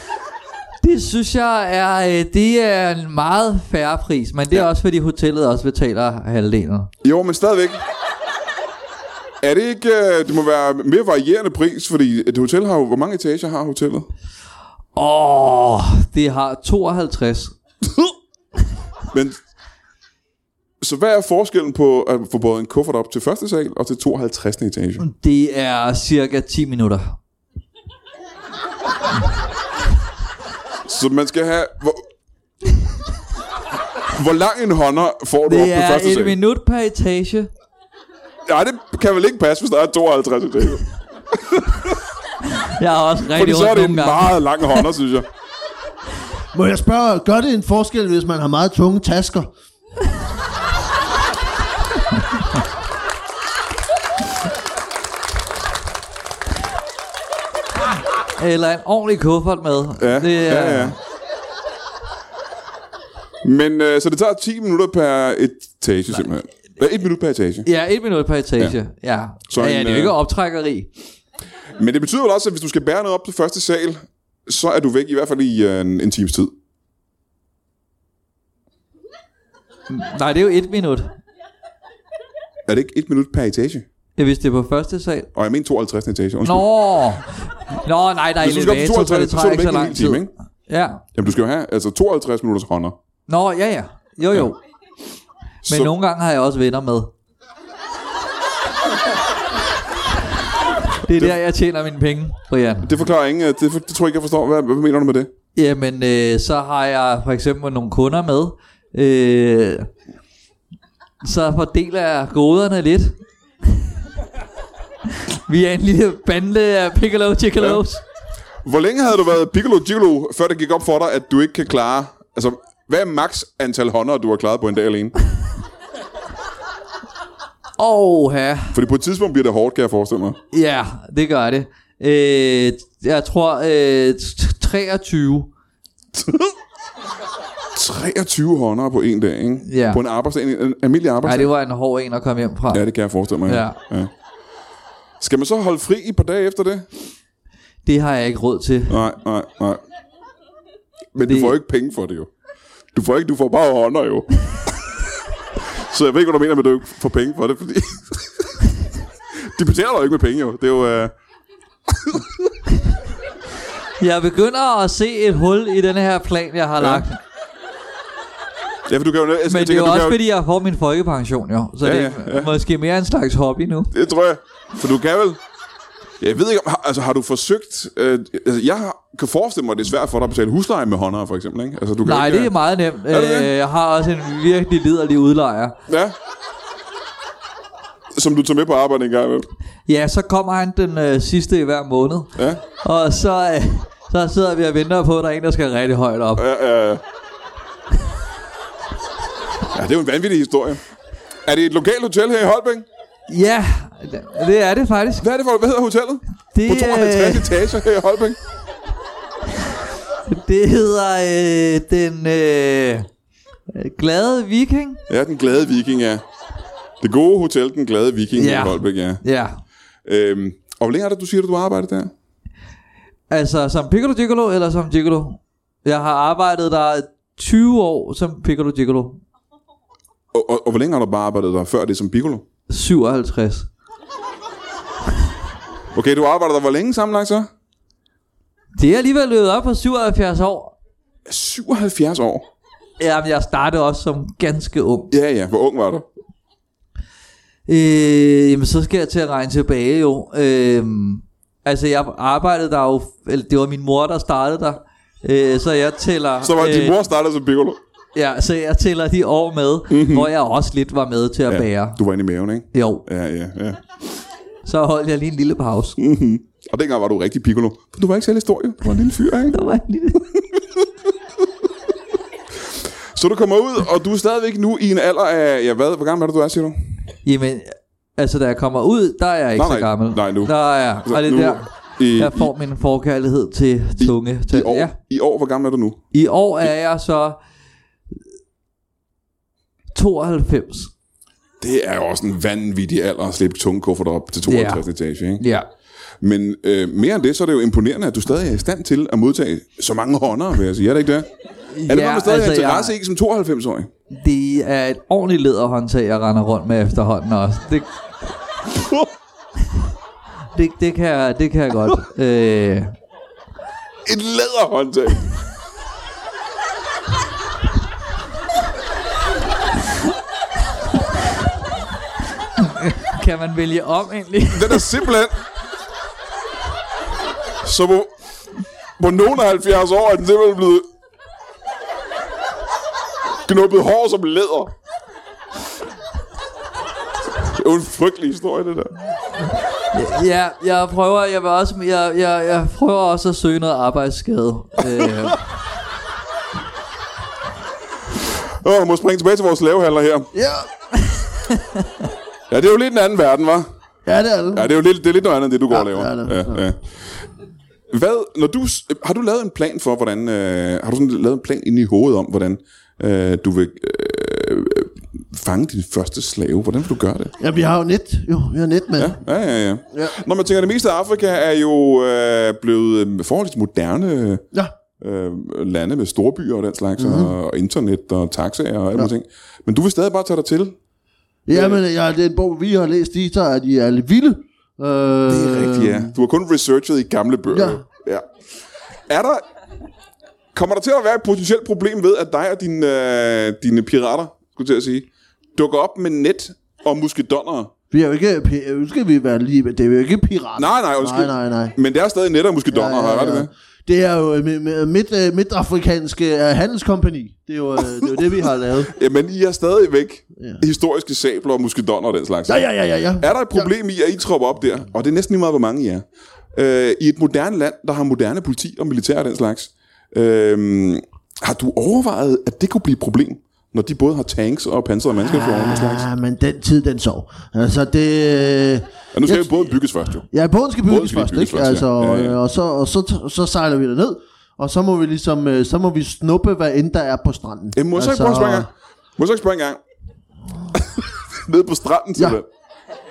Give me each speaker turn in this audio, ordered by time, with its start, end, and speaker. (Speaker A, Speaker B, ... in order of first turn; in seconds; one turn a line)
Speaker A: 0.8-6.9
Speaker B: 7.0-7.8
Speaker B: 9.4-14.1
Speaker A: 14.9-17.6
Speaker B: 19.1-19.4
Speaker B: 20.8-25.1
Speaker A: 25.0-27.2
Speaker B: 30.9-32.0
Speaker B: 34.1-36.4
Speaker A: 35.5-37.5
Speaker B: 38.5-42.0
Speaker A: 42.6-44.9
Speaker B: 43.3-45.3
Speaker C: 46.5-49.5
Speaker A: 58.4-61.0
Speaker B: 60.0-61.0
Speaker B: 63.4-67.7
Speaker A: 67.7-70.9
Speaker B: 69.5-70.2
Speaker B: 71.8-76.5
Speaker A: 79.9-81.2
Speaker B: 82.7-83.9
Speaker A: 84.2-85.3
Speaker B: 85.3-86.7
Speaker A: 86.5-91.1
Speaker B: 88.4-90.3
Speaker B: 91.2-93.0
Speaker A: 93.3-94.6
Speaker B: 95.7-95.9
Speaker A: 95.7-97.1
Speaker A: 101.0-103.0
Speaker B: 102.8-105.3
Speaker A: 105.5-109.9
Speaker A: 111.2-113.2
Speaker A: 115.2-118.0
Speaker B: 118.6-125.1
Speaker A: 127.8-128.8
Speaker B: 128.7-130.4
Speaker A: 130.5-135.5
Speaker B: 136.2-136.5
Speaker B: 137.7-141.5
Speaker A: 139.7-140.0
Speaker A: 141.2-142.9
Speaker B: 142.7-144.1
Speaker A: 143.5-143.8
Speaker B: 145.2-146.9
Speaker A: 147.8-149.0
Speaker B: 148.9-149.8
Speaker B: 151.2-152.3
Speaker A: 151.3-151.5
Speaker B: 152.9-154.3
Speaker B: 155.8-158.4
Speaker B: 159.4-161.1
Speaker B: 161.9-162.3
Speaker A: 164.0-167.2
Speaker B: 166.8-167.1
Speaker B: 168.9-170.2
Speaker A: 169.5-173.9
Speaker B: 171.8-172.5
Speaker B: 173.9-175.4
Speaker B: 176.2-182.5
Speaker A: 182.1-185.8
Speaker B: 183.1-183.5
Speaker B: 185.9-186.2
Speaker B: 188.2-189.5
Speaker A: 189.9-196.4
Speaker B: 192.4-192.6
Speaker B: 196.4-197.0
Speaker B: 199.7-200.8
Speaker B: 201.5-202.9
Speaker A: 203.3-205.2
Speaker B: 205.2-208.4
Speaker A: 206.5-207.5
Speaker A: 210.3-213.1
Speaker A: 213.7-215.0
Speaker B: 215.1-216.2
Speaker B: 217.0-219.2
Speaker A: 218.3-219.6
Speaker B: 220.1-222.1
Speaker A: 223.3-229.2
Speaker B: 230.3-232.4
Speaker A: 232.7-233.7
Speaker B: 235.9-237.5
Speaker A: 238.8-240.7
Speaker B: 241.3-242.4
Speaker A: 243.0-245.1
Speaker B: 245.1-246.1
Speaker A: 247.7-257.0
Speaker B: 256.4-257.8
Speaker A: 258.1-262.0
Speaker B: 259.9-260.3
Speaker B: 261.5-263.8
Speaker A: 262.7-263.0
Speaker A: 264.6-266.0
Speaker B: 266.0-269.6
Speaker A: 269.5-270.3
Speaker B: 273.1-276.8
Speaker A: 277.2-284.9
Speaker B: 279.6-280.5
Speaker B: 281.1-282.5
Speaker B: 284.0-286.0
Speaker A: 286.1-287.4
Speaker A: 289.9-290.9
Speaker B: 291.6-295.4
Speaker A: 294.5-294.8
Speaker A: 295.4-295.7
Speaker B: 296.2-301.3
Speaker A: 301.7-302.9
Speaker B: 301.9-303.9
Speaker A: 304.1-307.9
Speaker B: 308.8-309.1
Speaker A: 310.6-312.9
Speaker B: 314.1-315.2
Speaker A: 322.6-325.1
Speaker B: 324.5-325.3
Speaker B: 327.6-328.1
Speaker B: 329.0-330.9
Speaker B: 333.5-334.7
Speaker B: 337.4-338.9
Speaker A: 339.9-345.4
Speaker B: 348.6-350.3
Speaker C: 350.3-350.7
Speaker B: 352.5-353.7
Speaker C: 354.1-354.7
Speaker B: 354.5-357.2
Speaker C: 355.7-356.6
Speaker B: 357.9-367.4
Speaker C: 367.4-369.2
Speaker B: 369.0-374.4
Speaker B: 375.0-380.8
Speaker C: 377.0-377.3
Speaker C: 381.5-386.1
Speaker B: 381.5-381.8
Speaker B: 385.3-388.3
Speaker C: 387.5-387.8
Speaker B: 389.1-389.4
Speaker B: 390.5-397.7
Speaker C: 397.9-401.8
Speaker B: 400.6-403.5
Speaker C: 402.7-408.9
Speaker B: 408.9-426.1
Speaker C: 410.4-410.6
Speaker C: 412.5-413.7
Speaker C: 425.2-438.7
Speaker B: 429.1-430.3
Speaker B: 430.9-432.4
Speaker B: 437.7-439.8
Speaker B: 440.7-442.5